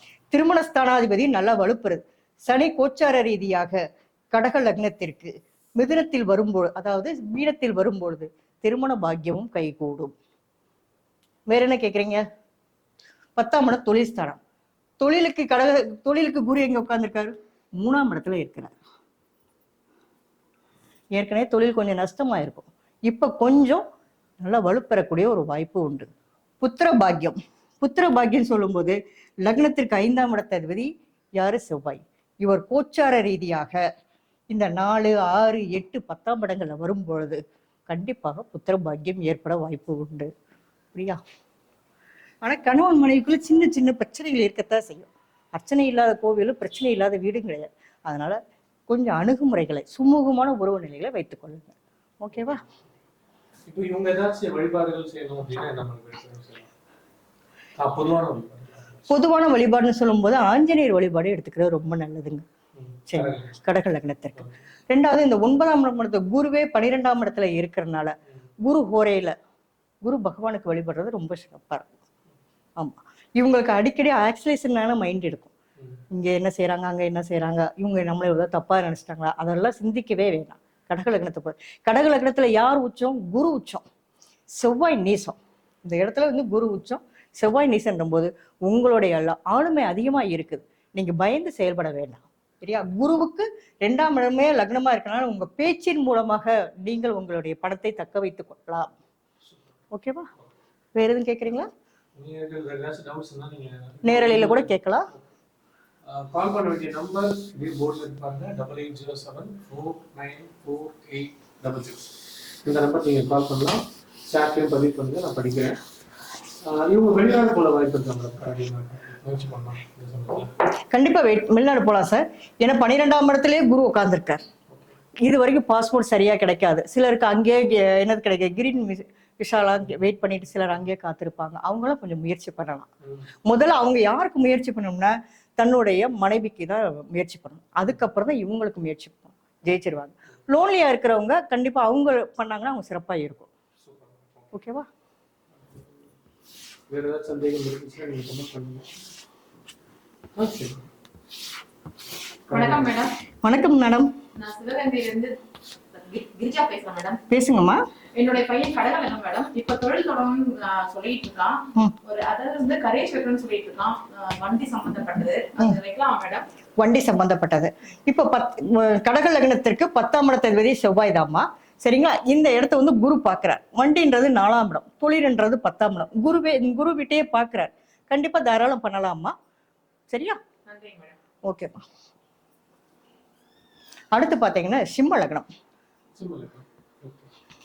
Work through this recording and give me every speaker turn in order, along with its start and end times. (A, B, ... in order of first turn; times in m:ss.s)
0:00.3-0:03.8 A
0:04.3-0:10.1 A
0:11.5-0:12.2 A
0:13.4-0:14.4 A
0:15.0-0:18.7 A
0:21.2-0:23.8 A
0:24.4-0:26.1 A
0:26.6-0:33.8 A
0:34.5-0:40.3 A
0:40.9-0:41.2 A
0:42.4-0:52.6 A
0:53.7-0:56.7 B
0:57.8-0:59.1 B
0:59.1-1:02.4 A
1:02.8-1:03.5 B
1:03.1-1:09.3 A
1:10.0-1:11.9 A
1:12.8-1:15.5 A
1:16.1-1:23.8 A
1:24.6-1:38.9 A
1:39.9-1:40.3 A
1:40.9-1:41.7 A
1:42.1-1:45.2 B
1:44.0-1:45.1 A
1:46.0-1:55.8 B
1:56.6-2:00.5 B
2:00.9-2:04.4 A
2:05.2-2:12.9 A
2:13.4-2:23.5 A
2:23.8-2:24.5 B
2:24.5-2:24.9 A
2:26.9-2:28.9 B
2:30.3-2:30.8 B
2:32.5-2:32.9 B
2:32.5-2:33.1 C
2:33.4-2:34.1 A
2:34.4-2:35.4 C
2:35.9-2:37.2 C
2:37.3-2:37.8 A
2:38.2-2:46.4 C
2:46.8-2:59.3 A
3:00.1-3:00.4 A
3:00.7-3:01.2 C
3:01.4-3:01.7 A
3:04.1-3:05.4 A
3:06.2-3:07.3 B